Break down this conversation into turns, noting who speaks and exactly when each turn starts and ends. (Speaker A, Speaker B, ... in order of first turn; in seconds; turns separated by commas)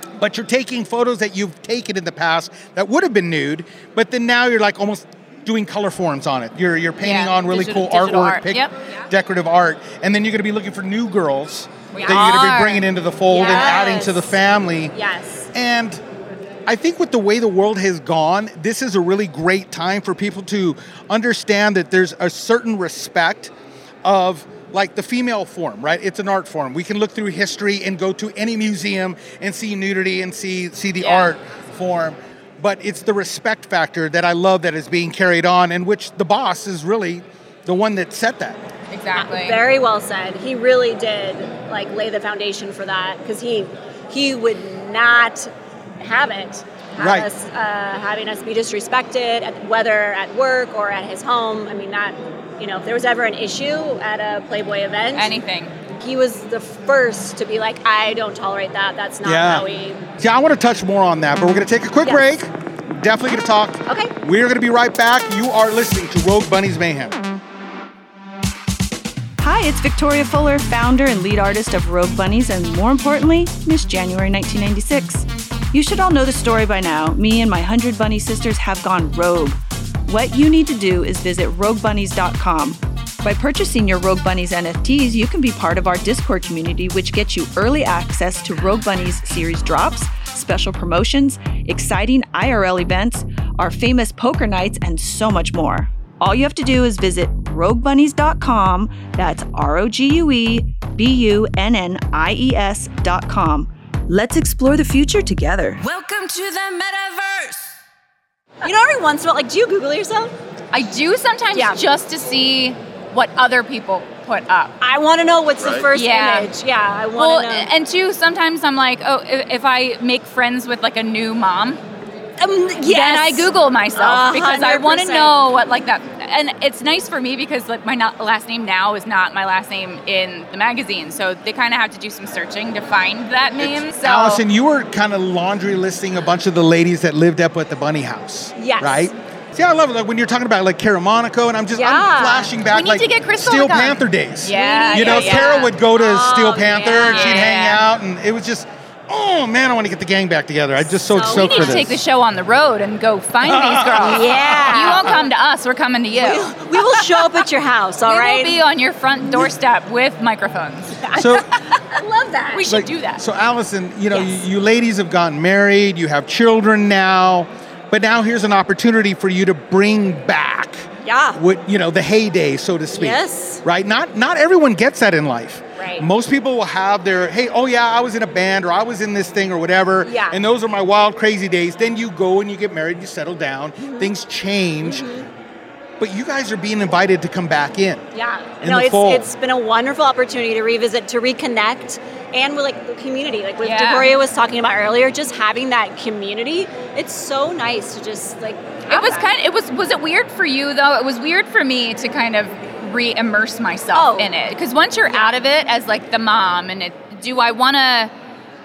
Speaker A: 0.2-14.9, Speaker B: 7.0-8.7, Speaker B: 11.9-12.9, Speaker C: 13.3-14.3, Speaker C: 14.9-15.5, Speaker A: 15.5-16.0, Speaker A: 16.6-23.5, Speaker A: 24.0-38.6, Speaker B: 31.0-31.3, Speaker B: 38.9-39.6, Speaker C: 39.1-45.5, Speaker C: 46.0-55.3, Speaker A: 47.0-47.3, Speaker B: 55.1-55.7, Speaker C: 56.0-60.1, Speaker A: 59.2-59.6, Speaker A: 60.2-67.2, Speaker C: 63.9-64.1, Speaker D: 69.4-105.8, Speaker E: 105.8-107.7, Speaker C: 108.6-110.3, Speaker B: 110.7-114.7, Speaker C: 111.5-111.8, Speaker C: 114.8-117.7, Speaker B: 115.9-116.5, Speaker B: 117.2-121.8, Speaker C: 122.4-125.3, Speaker B: 122.8-134.4, Speaker A: 133.6-152.0, Speaker C: 138.6-139.1, Speaker C: 141.7-142.5, Speaker B: 142.7-145.7, Speaker C: 144.5-147.4, Speaker B: 147.0-147.8, Speaker C: 150.9-151.8, Speaker B: 151.3-157.4, Speaker A: 153.4-155.2, Speaker C: 154.0-155.2, Speaker C: 156.1-158.6, Speaker B: 158.1-161.2, Speaker A: 161.1-161.4, Speaker C: 161.9-162.6, Speaker B: 162.5-163.2, Speaker A: 162.7-185.1, Speaker C: 171.0-171.4, Speaker C: 172.9-173.6, Speaker C: 175.8-176.1, Speaker C: 180.0-180.4, Speaker C: 183.8-184.1, Speaker C: 184.8-185.2, Speaker A: 186.0-188.0, Speaker C: 188.1-199.3, Speaker A: 188.6-189.3, Speaker B: 193.6-194.2, Speaker B: 198.9-208.1, Speaker C: 203.9-204.3